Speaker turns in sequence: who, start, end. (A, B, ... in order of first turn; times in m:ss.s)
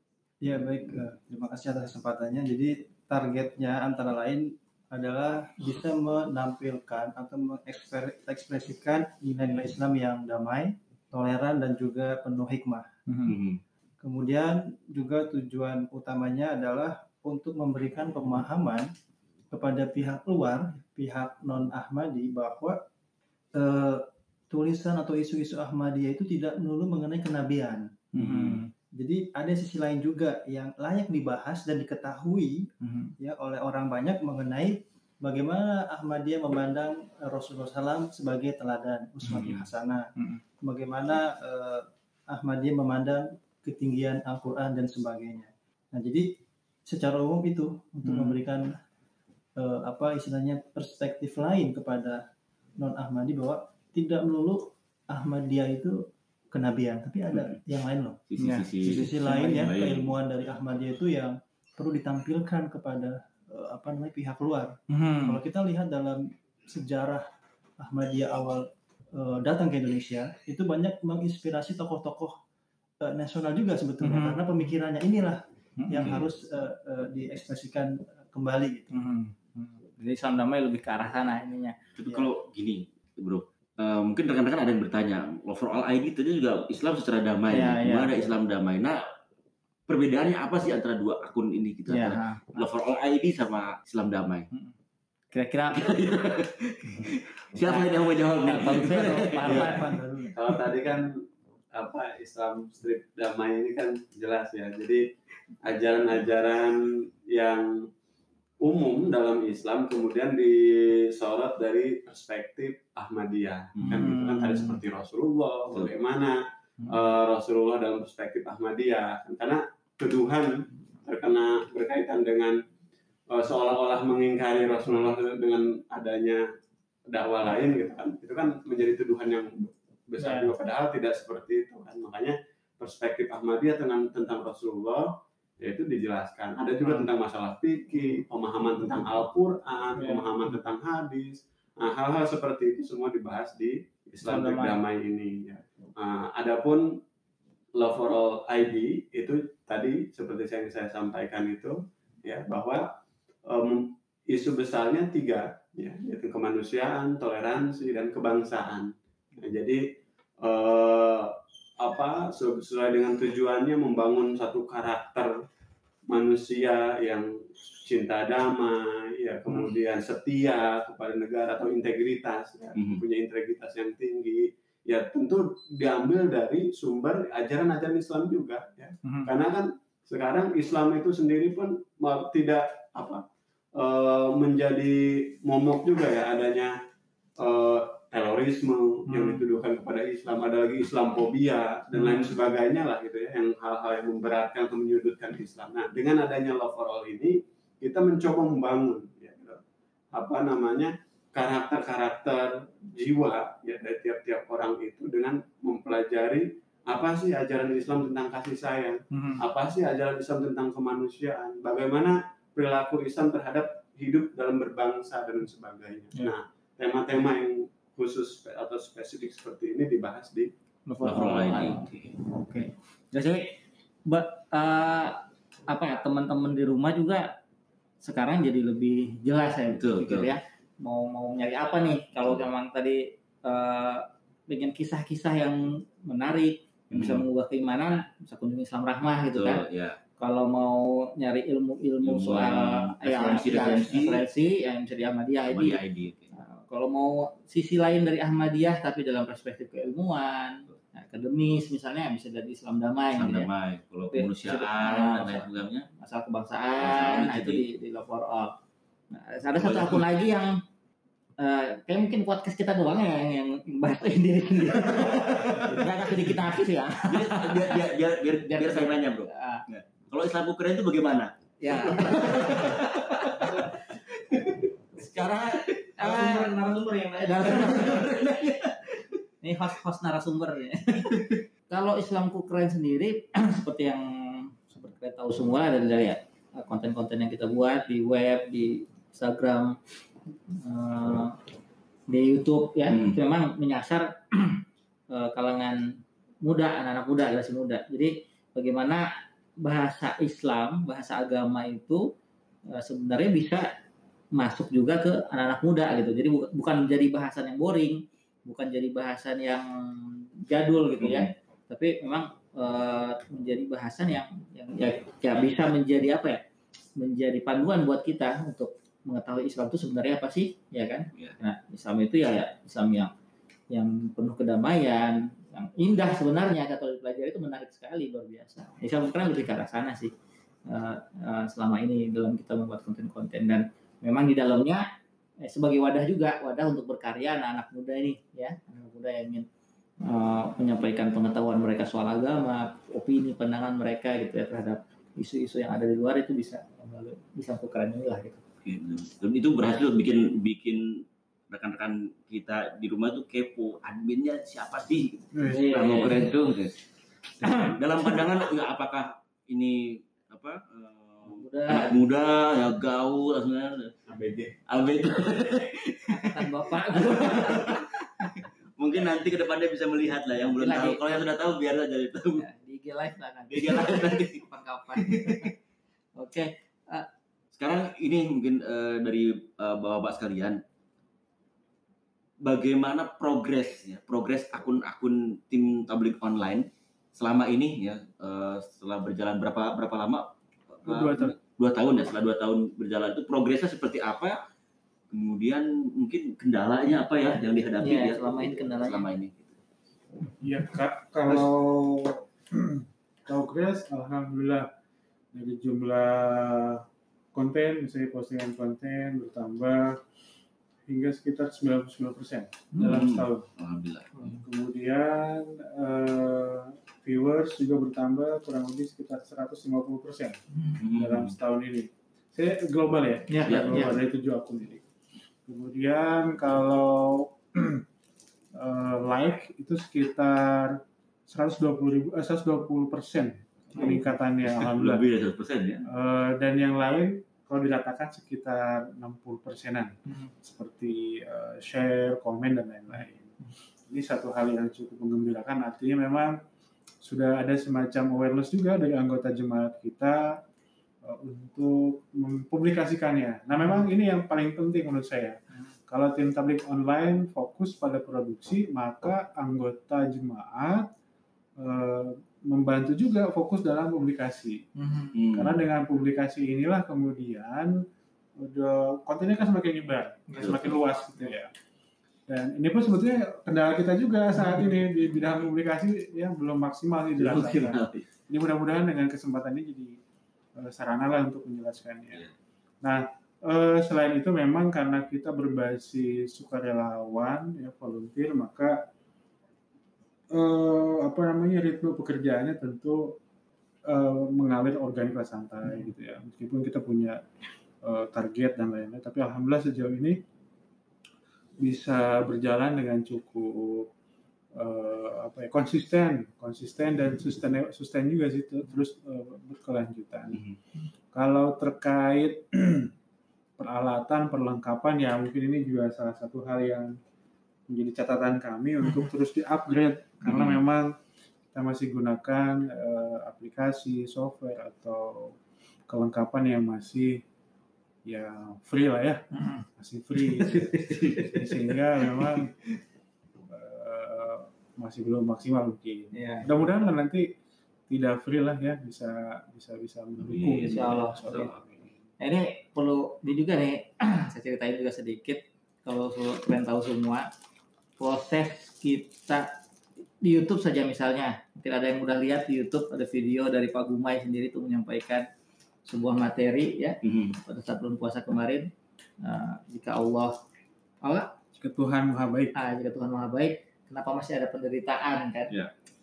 0:00.4-0:12.9 A
0:13.1-0:13.4 B
0:13.3-0:13.6 C
0:14.0-0:18.9 A
0:19.5-0:22.8 A
0:23.6-0:28.1 A
0:28.1-0:28.6 C
0:28.1-0:28.7 B
0:28.9-0:40.1 A
0:32.8-0:33.1 B
0:39.3-0:39.6 C
0:40.6-0:48.8 A
0:48.0-0:48.4 B
0:49.6-0:52.2 A
0:52.8-0:58.2 A
0:58.3-1:00.1 C
0:58.4-0:58.7 B
0:58.8-1:07.2 A
1:04.9-1:05.4 B
1:07.8-1:12.4 A
1:13.0-1:19.1 A
1:14.0-1:14.4 B
1:15.8-1:16.2 B
1:15.9-1:16.3 C
1:18.9-1:21.8 B
1:22.0-1:29.0 C
1:27.5-1:28.3 B
1:29.9-1:34.5 C
1:31.9-1:32.7 B
1:35.3-1:36.1 B
1:35.7-1:40.0 C
1:37.6-1:40.3 B
1:40.3-1:41.1 D
1:41.7-1:45.0 D
1:45.6-1:47.7 D
1:48.6-2:02.6 D
1:53.8-1:54.1 C
1:53.8-1:54.8 B
2:03.3-2:06.4 D
2:07.1-2:15.1 D
2:10.2-2:10.5 B
2:15.6-2:26.9 D
2:24.3-2:24.8 B
2:27.8-2:32.9 D
2:33.5-2:39.8 D
2:40.4-2:45.3 D
2:46.1-2:47.3 D
2:47.8-3:03.2 D
2:52.8-2:53.0 C
2:59.0-2:59.3 B
3:03.8-3:06.7 D
3:07.4-3:19.6 D
3:09.1-3:09.4 B
3:20.1-3:40.5 D
3:29.1-3:29.4 B
3:40.9-3:47.4 B
3:41.0-3:42.1 C
3:48.0-3:59.6 B
3:49.7-3:50.3 C
3:56.9-3:57.3 C
3:59.3-4:00.0 C
4:00.2-4:05.8 B
4:02.0-4:04.2 C
4:05.5-4:06.3 C
4:06.3-4:13.5 B
4:13.1-4:15.9 C
4:14.1-4:18.6 B
4:16.8-4:17.6 C
4:19.1-4:20.6 B
4:19.6-4:20.0 C
4:21.4-4:27.8 B
4:24.9-4:26.5 C
4:27.1-4:33.4 C
4:28.4-4:29.6 B
4:31.6-4:33.3 B
4:34.3-4:34.6 C
4:34.9-4:36.6 B
4:36.0-4:38.2 E
4:37.2-4:38.1 B
4:37.8-4:38.7 C
4:39.4-4:49.8 B
4:50.5-4:51.4 B
4:52.1-4:59.1 B
4:52.9-4:53.2 C
4:59.6-5:02.1 B
5:02.7-5:03.7 B
5:04.4-5:16.4 B
5:11.0-5:11.3 C
5:17.0-5:23.1 B
5:23.7-5:30.1 B
5:30.7-5:34.9 B
5:35.4-5:39.5 B
5:40.0-5:48.4 B
5:48.6-5:56.8 C
5:55.4-5:55.8 F
5:55.5-5:56.3 B
5:57.4-5:57.7 B
5:57.4-6:03.9 C
6:01.3-6:02.0 B
6:04.1-6:04.6 D
6:04.7-6:12.4 C
6:06.1-6:07.8 B
6:10.6-6:11.3 B
6:12.3-6:15.5 B
6:13.5-6:15.5 C
6:16.2-6:17.1 B
6:17.5-6:20.6 C
6:22.4-6:34.4 C
6:30.8-6:31.4 F
6:35.1-6:39.6 C
6:37.8-6:39.1 B
6:40.4-6:44.7 F
6:45.3-6:50.0 F
6:50.9-6:53.5 F
6:52.8-6:54.2 C
6:54.3-7:04.8 F
7:00.8-7:01.3 C
7:03.3-7:03.9 B
7:03.4-7:03.9 C
7:05.4-7:07.8 F
7:08.5-7:15.0 F
7:14.4-7:15.8 C
7:15.9-7:23.3 F
7:23.9-7:26.4 F
7:27.0-7:30.4 F
7:31.0-7:40.9 F
7:41.6-7:44.7 F
7:44.8-7:45.1 B
7:45.1-7:45.6 C
7:45.3-7:47.8 F
7:48.4-7:51.5 F
7:50.3-7:50.6 B
7:50.4-7:50.7 C
7:52.3-8:00.0 F
7:57.2-7:58.0 C
8:00.6-8:02.3 F
8:02.8-8:08.9 F
8:10.3-8:13.2 F
8:13.9-8:17.2 F
8:17.8-8:20.2 F
8:21.6-8:23.9 F
8:24.6-8:30.4 F
8:31.1-8:32.9 F
8:33.6-8:36.9 F
8:37.7-8:40.9 F
8:40.3-8:40.6 C
8:41.5-8:45.3 F
8:45.9-8:47.2 F
8:48.1-8:49.2 F
8:49.3-8:49.6 B
8:49.8-8:52.5 F
8:50.8-8:51.4 C
8:53.4-8:57.3 F
8:56.1-8:56.4 B
8:57.9-9:01.8 F
9:00.2-9:01.5 C
9:00.6-9:01.5 B
9:02.2-9:07.3 B
9:08.0-9:09.5 B
9:10.2-9:15.3 B
9:15.8-9:18.7 B
9:17.0-9:17.4 C
9:19.2-9:20.4 B
9:21.0-9:21.3 B
9:21.6-9:22.5 F
9:22.6-9:25.6 B